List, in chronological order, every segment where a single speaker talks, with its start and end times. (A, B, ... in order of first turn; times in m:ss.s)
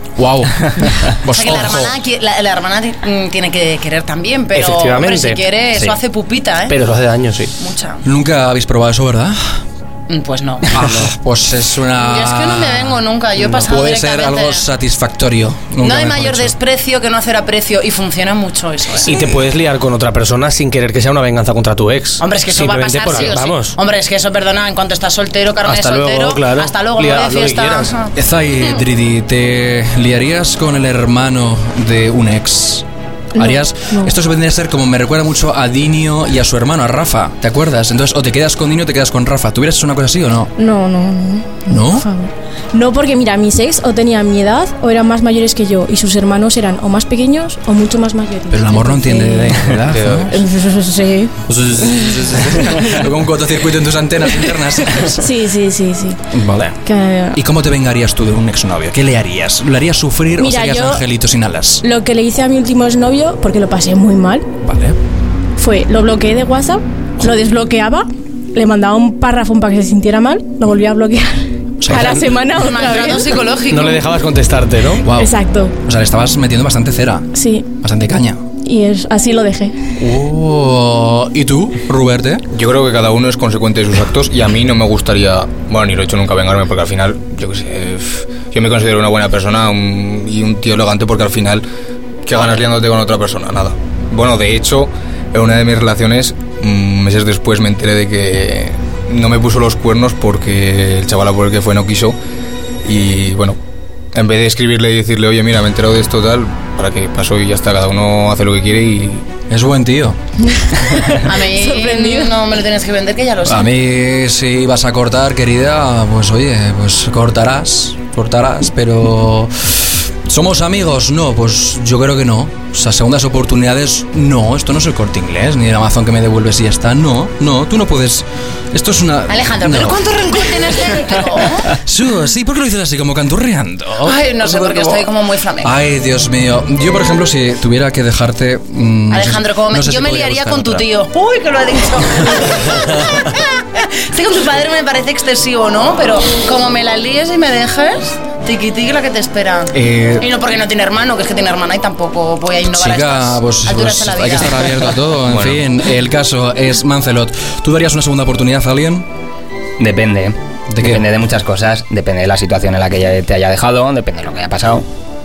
0:00.2-0:02.0 A
0:01.3-0:06.8 B
0:04.5-0:05.4 C
0:06.7-0:07.5 C
0:07.6-0:08.0 B
0:08.0-0:09.4 A
0:10.1-0:10.8 B
0:10.7-0:16.5 A
0:12.0-0:14.7 B
0:15.8-0:19.4 B
0:19.0-0:23.8 C
0:22.2-0:28.1 B
0:25.6-0:27.9 C
0:28.1-0:32.8 A
0:33.3-0:34.1 D
0:33.4-0:40.5 A
0:40.6-0:49.7 D
0:41.7-0:42.1 A
0:48.5-0:50.4 A
0:50.3-0:51.3 D
0:51.5-0:55.3 A
0:55.2-0:56.2 D
0:56.3-0:56.8 A
0:56.8-0:57.4 D
0:57.3-1:01.8 A
1:00.4-1:01.0 D
1:01.8-1:04.5 D
1:04.6-1:05.0 A
1:05.6-1:13.3 D
1:11.8-1:12.4 A
1:12.5-1:14.0 B
1:13.7-1:15.0 C
1:15.0-1:18.4 A
1:15.1-1:15.7 D
1:17.3-1:17.7 D
1:18.6-1:19.9 D
1:20.0-1:22.4 A
1:22.5-1:31.6 E
1:32.2-1:42.2 E
1:42.8-1:43.6 E
1:44.1-1:49.2 E
1:49.5-1:50.2 A
1:51.2-1:53.7 B
1:51.3-1:52.4 D
1:53.4-2:10.6 A
2:09.3-2:11.7 B
2:11.8-2:15.1 A
2:14.0-2:15.7 B
2:15.6-2:20.9 A
2:19.1-2:35.0 B
2:29.7-2:30.3 A
2:32.7-2:39.1 A
2:35.2-2:35.6 F
2:39.8-2:44.8 F
2:40.7-2:41.0 A